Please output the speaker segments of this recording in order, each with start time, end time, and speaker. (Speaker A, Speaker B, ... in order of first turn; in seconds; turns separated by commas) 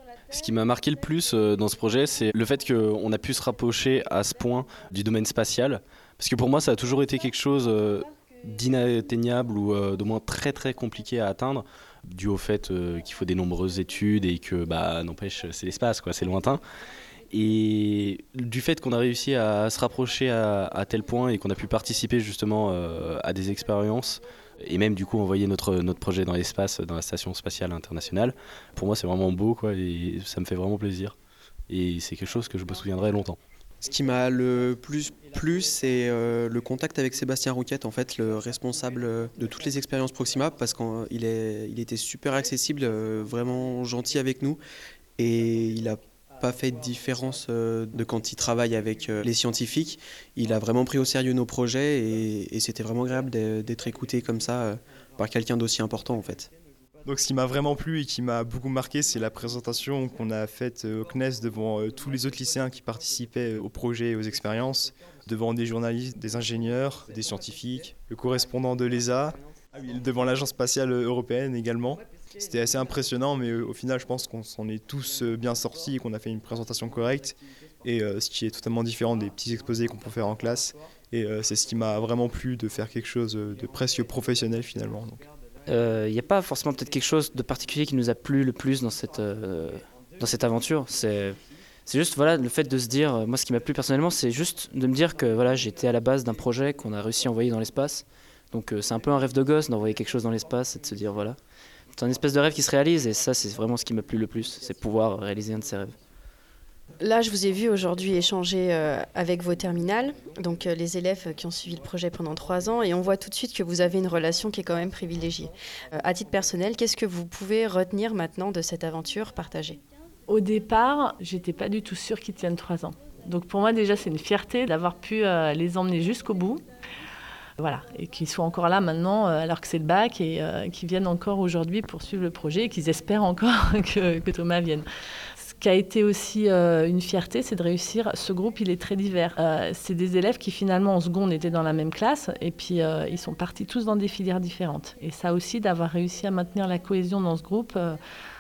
Speaker A: 0.3-16.6, Speaker A: 17.3-31.2, Speaker A: 31.7-33.4, Speaker B: 33.8-44.6, Speaker B: 45.2-56.5, Speaker C: 57.0-85.3, Speaker D: 85.7-101.4, Speaker D: 102.0-105.9, Speaker E: 107.0-119.8, Speaker F: 120.3-126.6, Speaker F: 127.6-134.9, Speaker F: 135.4-148.0